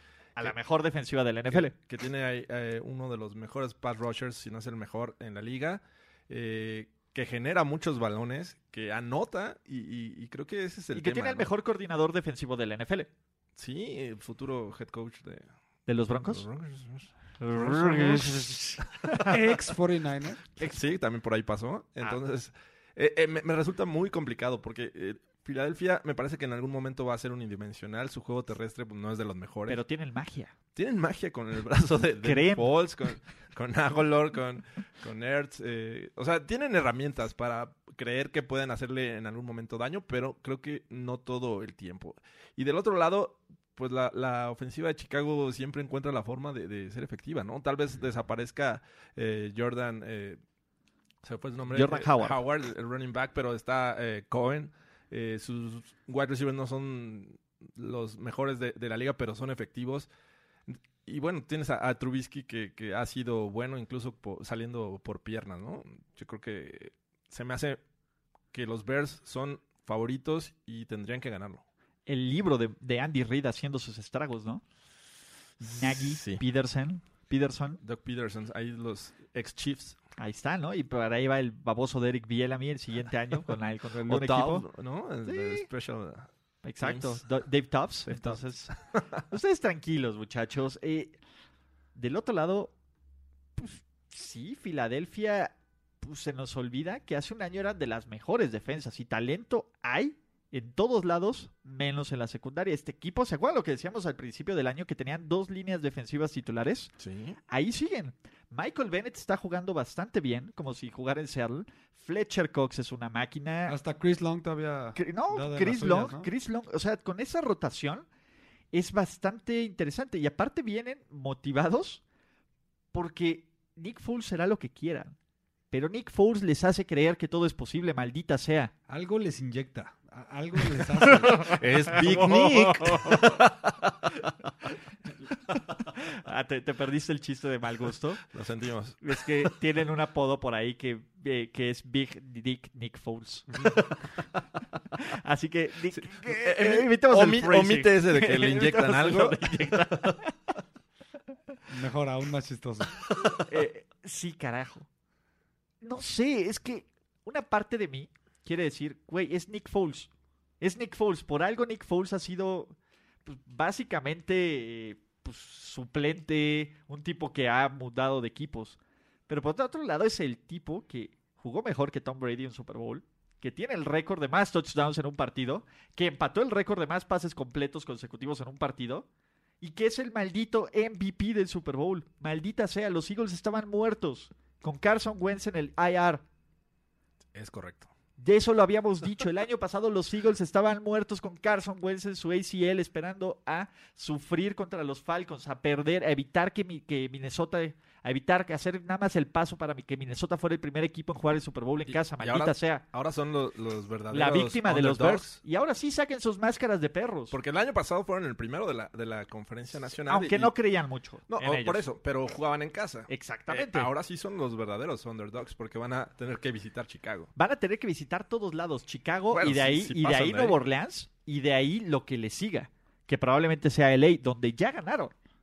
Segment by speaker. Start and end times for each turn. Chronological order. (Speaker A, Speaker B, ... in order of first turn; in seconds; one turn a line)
Speaker A: 0.4-1.7
Speaker B: 1.5-11.5
Speaker A: 10.9-13.1
Speaker B: 13.6-15.5
Speaker A: 15.9-16.4
Speaker B: 16.3-18.4
Speaker A: 17.4-19.2
Speaker B: 19.0-19.3
Speaker C: 19.3-20.4
Speaker B: 20.6-29.8
Speaker A: 29.7-30.5
Speaker B: 30.8-50.4
Speaker A: 32.2-32.7
Speaker B: 51.2-60.1
Speaker A: 51.7-52.4
Speaker B: 60.7-67.8
Speaker B: 68.5-71.6
Speaker A: 72.1-74.6
Speaker A: 75.6-77.8
Speaker B: 75.8-76.4
Speaker B: 77.8-80.0
Speaker A: 80.2-84.7
Speaker B: 84.0-86.3
Speaker A: 85.3-85.7
Speaker A: 86.6-91.2
Speaker B: 86.8-87.2
Speaker B: 88.1-89.1
Speaker A: 92.0-92.7
Speaker A: 93.6-106.9
Speaker B: 107.0-107.4
Speaker A: 107.5-113.8
Speaker C: 113.7-116.3
Speaker A: 115.0-118.0
Speaker A: 118.7-122.0
Speaker A: 122.9-125.2
Speaker A: 125.7-128.7
Speaker C: 128.9-131.6
Speaker B: 131.4-134.3
Speaker A: 132.1-133.3
Speaker A: 135.5-138.2
Speaker B: 138.3-139.5
Speaker A: 139.0-143.7
Speaker B: 143.6-144.1
Speaker A: 144.9-150.3
Speaker B: 145.9-150.2
Speaker C: 151.7-153.0
Speaker B: 153.1-153.3
Speaker A: 153.5-154.9
Speaker A: 155.8-160.1
Speaker A: 160.6-179.1
Speaker A: 179.6-186.2
Speaker B: 187.3-187.9
Speaker A: 188.2-202.8
Speaker B: 201.9-205.4
Speaker A: 204.1-207.4
Speaker B: 207.3-210.5
Speaker A: 210.1-211.8
Speaker B: 211.3-217.3
Speaker A: 213.1-213.9
Speaker A: 217.4-225.1
Speaker B: 219.3-220.6